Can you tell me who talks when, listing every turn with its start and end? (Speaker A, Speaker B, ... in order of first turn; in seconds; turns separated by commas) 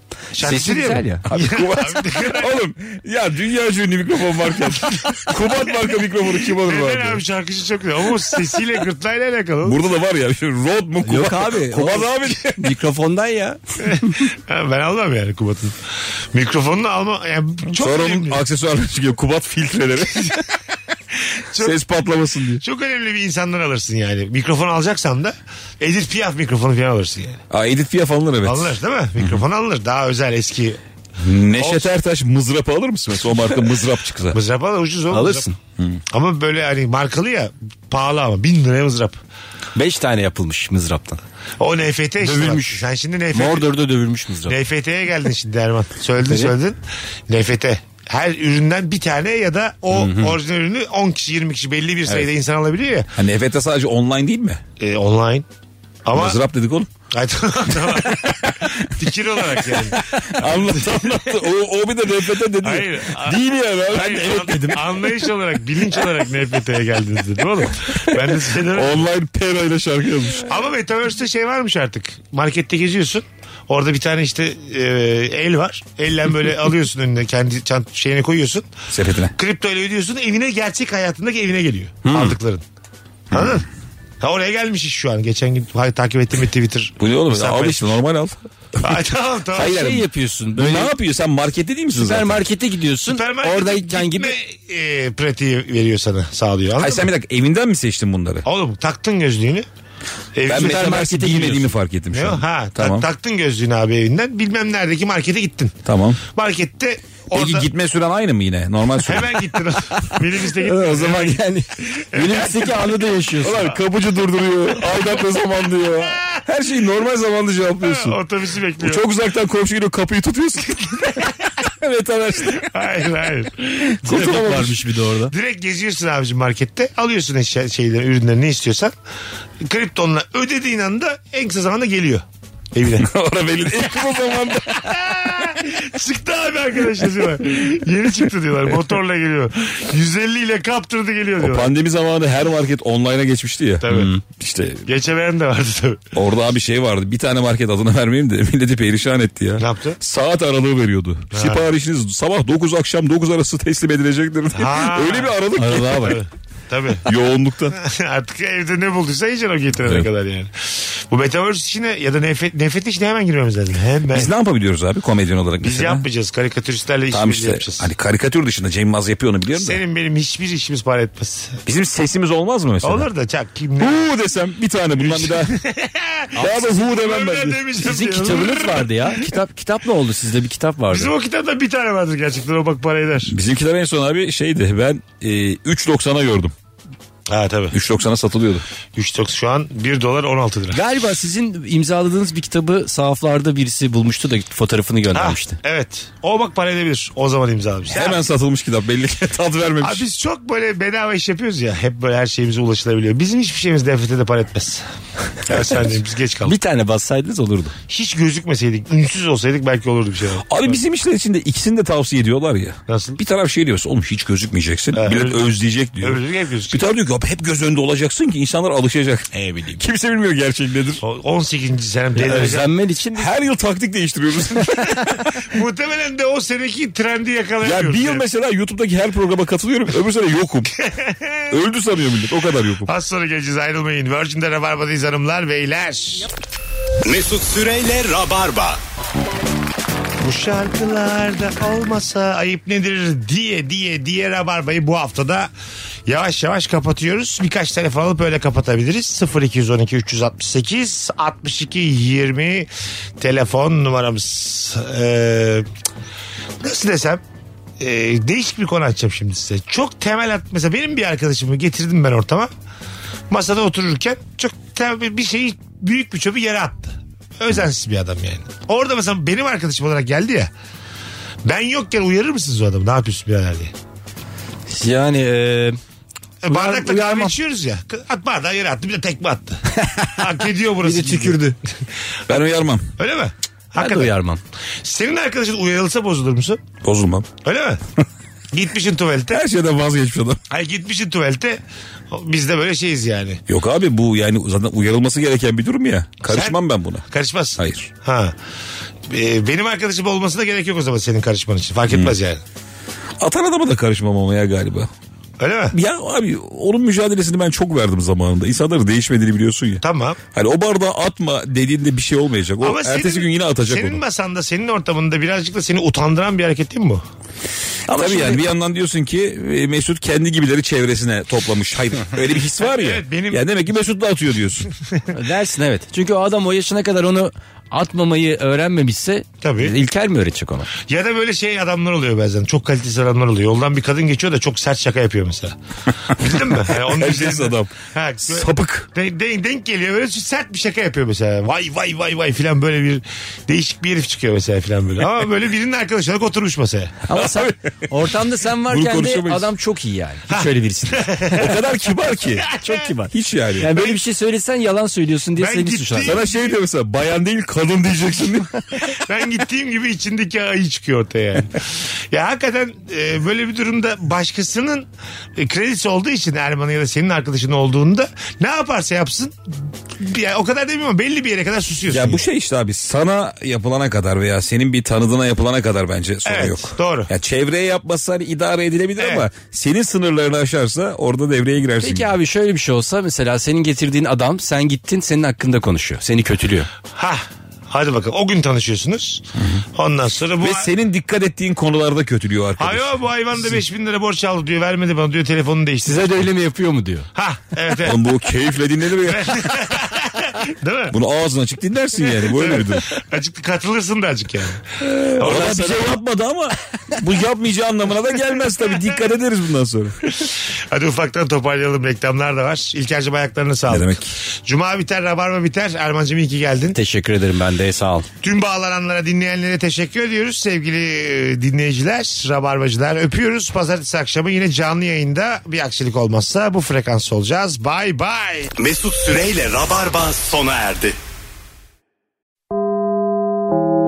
Speaker A: 0.3-2.6, Speaker B: 0.4-1.2, Speaker C: 1.3-7.2, Speaker A: 4.9-5.2, Speaker A: 6.5-9.8, Speaker C: 9.6-12.7, Speaker B: 11.0-14.2, Speaker A: 13.9-15.8, Speaker A: 16.3-18.4, Speaker C: 17.8-20.4, Speaker A: 21.5-21.8, Speaker C: 21.6-22.6, Speaker A: 22.6-27.4, Speaker C: 27.5-29.4, Speaker A: 28.4-30.8, Speaker C: 31.2-34.4, Speaker A: 31.6-31.9, Speaker A: 34.3-35.5, Speaker B: 35.1-35.6, Speaker A: 36.1-39.2, Speaker B: 39.8-41.2, Speaker A: 41.6-43.7, Speaker B: 42.2-44.6, Speaker A: 44.5-53.1, Speaker B: 46.3-46.5, Speaker B: 49.9-50.4, Speaker C: 53.2-54.6, Speaker A: 54.8-55.5, Speaker A: 56.0-56.4, Speaker C: 56.1-56.9, Speaker A: 57.1-60.8, Speaker C: 60.2-64.3, Speaker A: 62.6-69.1, Speaker B: 63.9-65.0, Speaker C: 68.7-70.5, Speaker A: 70.5-78.7, Speaker C: 78.9-79.3, Speaker A: 79.4-82.6, Speaker C: 82.1-82.4, Speaker C: 83.3-83.6, Speaker A: 83.3-83.7, Speaker A: 84.2-87.9, Speaker C: 87.0-88.9, Speaker A: 88.8-89.9, Speaker C: 89.5-92.4, Speaker B: 89.6-90.9, Speaker B: 91.9-94.3, Speaker A: 93.1-97.1, Speaker C: 96.8-98.4, Speaker A: 98.5-99.7, Speaker A: 100.3-100.9, Speaker C: 100.5-103.1, Speaker B: 100.5-101.8, Speaker A: 102.1-105.8, Speaker C: 105.9-106.2, Speaker A: 106.3-107.7, Speaker C: 107.3-109.4, Speaker A: 109.0-111.4, Speaker B: 110.6-113.7, Speaker A: 111.9-112.9, Speaker C: 113.4-118.2, Speaker A: 115.9-116.4, Speaker A: 117.8-119.0, Speaker C: 118.8-122.7, Speaker A: 120.9-121.3, Speaker A: 122.5-124.3, Speaker B: 124.0-125.3, Speaker C: 124.0-124.8, Speaker A: 125.3-128.9, Speaker A: 129.7-133.1, Speaker C: 133.0-135.5, Speaker A: 134.7-141.7, Speaker C: 141.4-144.8, Speaker A: 143.8-144.1, Speaker A: 144.9-146.0, Speaker C: 146.2-156.2, Speaker A: 149.6-150.0, Speaker A: 151.3-151.7, Speaker A: 154.6-157.1, Speaker B: 155.6-156.2, Speaker C: 157.1-157.8, Speaker A: 157.8-164.3, Speaker C: 164.1-166.1, Speaker A: 165.6-167.9, Speaker C: 167.1-169.8, Speaker A: 169.5-171.6, Speaker C: 171.7-173.1, Speaker A: 172.8-174.1, Speaker C: 173.8-175.6, Speaker A: 175.0-179.2, Speaker C: 176.3-177.6, Speaker B: 177.8-181.1, Speaker A: 180.9-183.3, Speaker C: 183.3-186.5, Speaker A: 187.3-187.8, Speaker C: 187.7-188.7, Speaker A: 189.0-190.8, Speaker B: 190.7-195.6, Speaker A: 195.1-198.2, Speaker C: 197.9-200.0, Speaker A: 199.8-204.8, Speaker A: 205.4-206.6, Speaker B: 206.4-207.8, Speaker A: 207.9-210.8, Speaker C: 210.5-221.0, Speaker A: 212.9-213.2, Speaker A: 214.9-215.5, Speaker A: 216.0-216.8, Speaker B: 219.3-219.8, Speaker A: 221.0-222.7, Speaker B: 222.2-223.3, Speaker C: 223.2-225.2, Speaker A: 225.5-228.2, Speaker C: 227.6-230.7, Speaker A: 230.8-231.5, Speaker C: 231.5-232.9, Speaker A: 232.9-236.3, Speaker D: 237.1-238.8, Speaker A: 240.2-245.5, Speaker A: 246.1-252.7, Speaker A: 253.2-255.7, Speaker A: 256.6-257.2, Speaker A: 257.8-262.5, Speaker A: 263.3-270.5, Speaker A: 271.4-273.7, Speaker B: 274.7-275.8, Speaker A: 276.4-281.5, Speaker B: 276.5-277.4, Speaker B: 279.8-280.2, Speaker B: 280.8-281.6, Speaker C: 282.3-282.9, Speaker A: 283.0-284.1, Speaker B: 283.8-284.4, Speaker A: 284.8-286.6, Speaker C: 286.8-287.3, Speaker A: 287.4-287.8, Speaker A: 288.5-289.4, Speaker C: 289.3-290.4, Speaker A: 290.5-291.6, Speaker A: 292.1-293.4, Speaker C: 293.5-297.1, Speaker A: 296.3-298.3, Speaker C: 297.6-297.9, Speaker A: 299.1-302.4, Speaker C: 303.2-304.9, Speaker A: 305.4-305.8, Speaker C: 305.7-309.8, Speaker A: 309.8-310.2, Speaker C: 310.3-314.0, Speaker A: 312.6-317.1, Speaker C: 317.9-324.7, Speaker B: 318.0-318.4, Speaker A: 322.6-323.4, Speaker B: 325.1-330.7, Speaker A: 329.4-329.7, Speaker A: 330.9-335.6, Speaker A: 336.1-347.0, Speaker C: 336.7-337.7, Speaker C: 338.2-338.9, Speaker B: 347.1-351.5, Speaker C: 347.1-348.1, Speaker C: 348.7-349.5, Speaker A: 350.3-351.6, Speaker C: 351.4-352.5, Speaker A: 352.4-352.9, Speaker B: 352.6-356.2, Speaker C: 353.1-353.9, Speaker A: 355.4-356.6, Speaker C: 356.0-358.5, Speaker A: 358.9-364.9, Speaker A: 365.4-372.2, Speaker C: 371.9-382.1, Speaker A: 376.2-377.1, Speaker A: 379.0-379.3, Speaker B: 381.8-386.7, Speaker A: 387.0-389.2, Speaker C: 389.4-389.6, Speaker A: 389.8-390.7, Speaker C: 390.4-392.9, Speaker A: 392.6-396.3, Speaker B: 395.8-397.1, Speaker A: 397.1-398.0, Speaker C: 397.8-399.3, Speaker A: 399.1-400.9, Speaker C: 400.9-402.9, Speaker A: 402.0-405.9, Speaker C: 404.8-410.0, Speaker A: 410.1-416.8, Speaker C: 413.7-414.1, Speaker B: 416.7-418.1, Speaker A: 418.2-428.5, Speaker D: 428.6-431.0